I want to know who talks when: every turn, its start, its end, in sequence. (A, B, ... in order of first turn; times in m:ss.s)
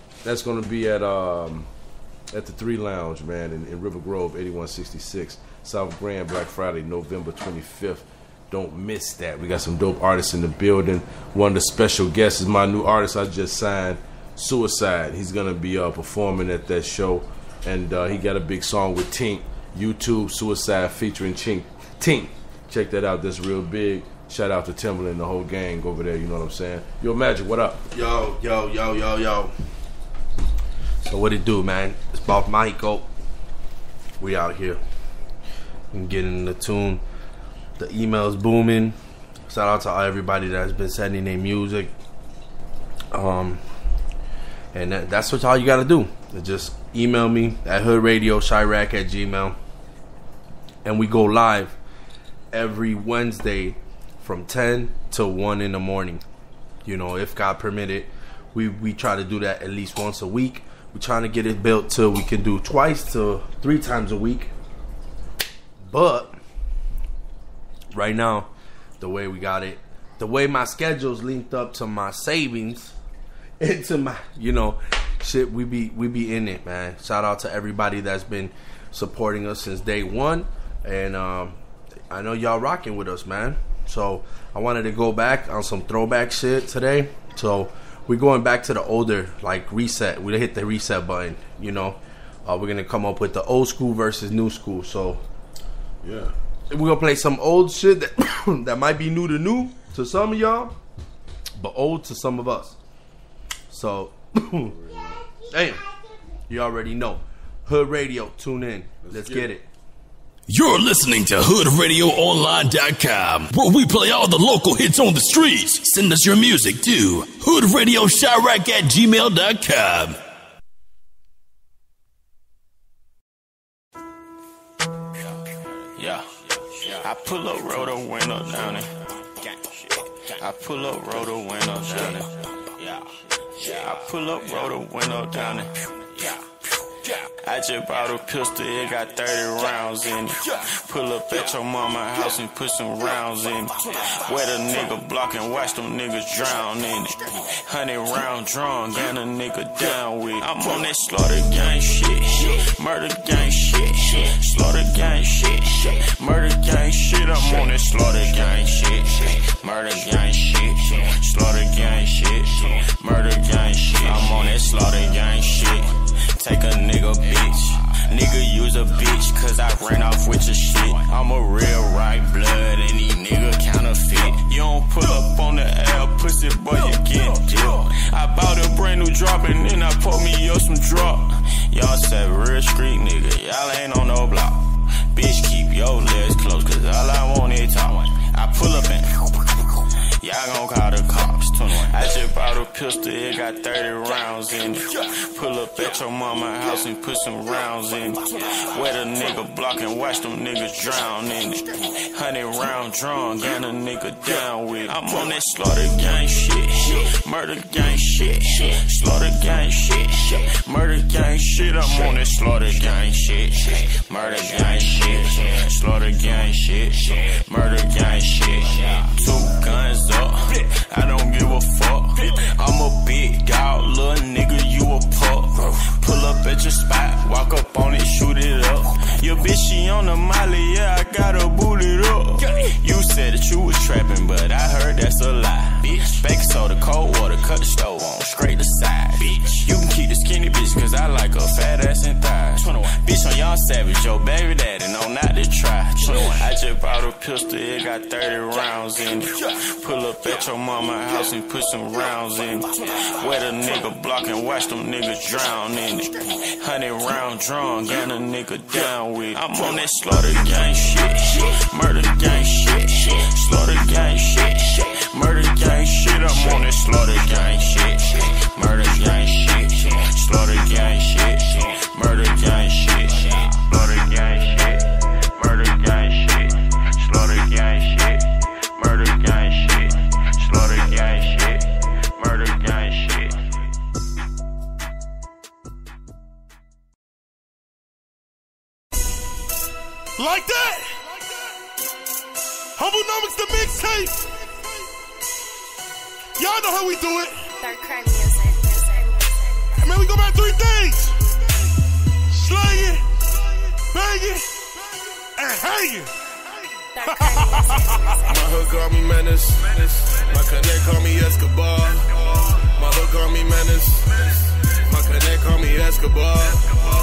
0:00.2-0:01.7 A
0:02.3-0:27.8 A
0:27.9-0:29.5 B
0:31.0-0:33.1 B
0:34.2-0:34.8 B
0:35.9-0:37.0 B
0:37.8-0:41.9 B
0:43.1-0:43.6 B
0:44.7-0:49.6 B
0:50.8-0:51.8 B
0:52.5-0:56.2 B
0:56.8-1:04.5 B
1:05.8-1:06.4 B
1:07.9-1:13.0 B
1:13.6-1:21.6 B
1:22.1-1:35.2 B
1:36.0-1:36.3 A
1:36.7-1:40.8 B
1:41.6-1:42.8 B
1:43.7-1:44.8 B
1:44.7-1:45.1 A
1:45.5-1:45.8 B
1:46.5-1:49.7 B
1:49.1-1:49.5 A
1:50.5-2:00.2 C
2:06.0-2:16.4 D
2:17.4-4:43.4 D
4:50.2-4:51.2 E
4:52.8-4:54.3 E
4:56.4-4:57.6 E
4:57.6-4:59.5 F
4:59.8-5:01.2 E
5:02.3-5:03.1 E
5:03.9-5:04.6 E
5:05.4-5:06.1 E
5:06.8-5:08.2 E
5:07.0-5:08.2 F
5:08.3-5:12.1 G
5:12.8-5:14.2 G
5:14.9-5:16.6 G